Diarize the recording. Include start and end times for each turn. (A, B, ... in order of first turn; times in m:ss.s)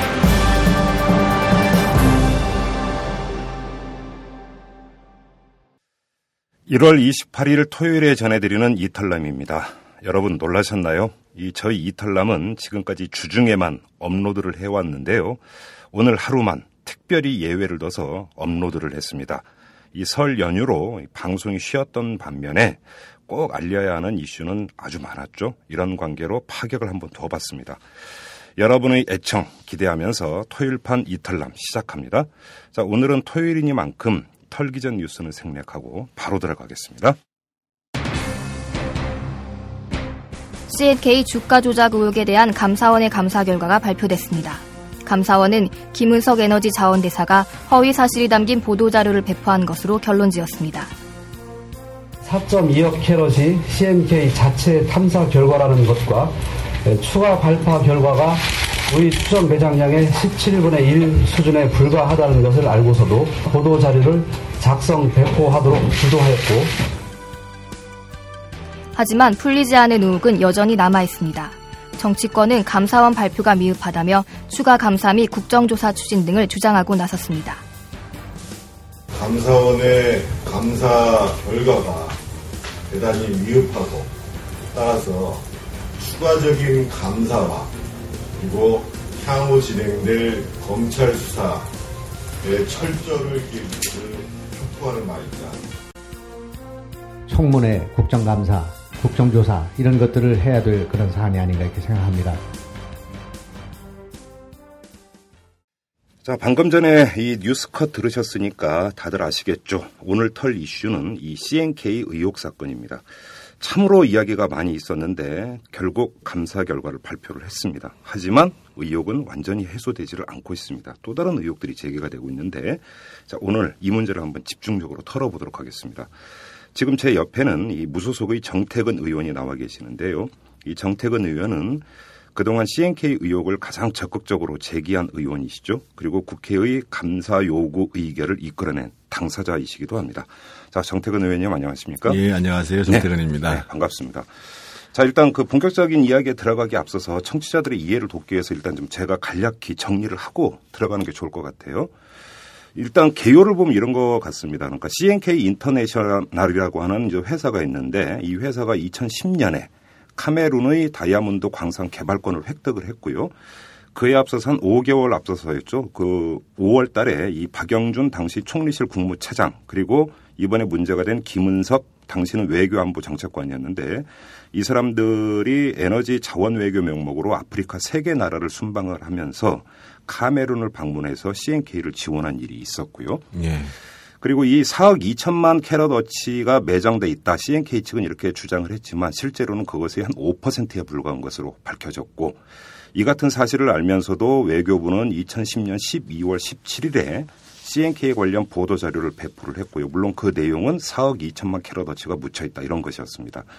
0:06.7-0:15.4 A
0:15.9-0:27.8 A
0:28.6-0:37.2 A
0:40.7-0:50.9 B
0:52.2-0:56.3 C
0:56.8-1:06.8 C
1:09.0-1:17.6 B
1:19.1-1:22.2 D
1:22.9-1:24.1 D
1:24.7-1:25.4 D
1:26.0-1:27.7 D
1:28.4-1:31.7 D
1:32.4-1:35.6 D
1:37.3-1:42.4 E
1:46.2-1:53.0 A
1:53.6-2:06.1 A
2:06.7-2:11.8 A
2:12.4-2:22.2 A
2:22.0-2:23.6 D
2:22.9-2:24.3 A
2:24.9-2:31.9 A
2:32.8-2:43.3 A
2:44.0-3:03.2 A
3:03.3-3:03.7 D
3:04.2-3:12.4 A
3:12.9-3:23.5 A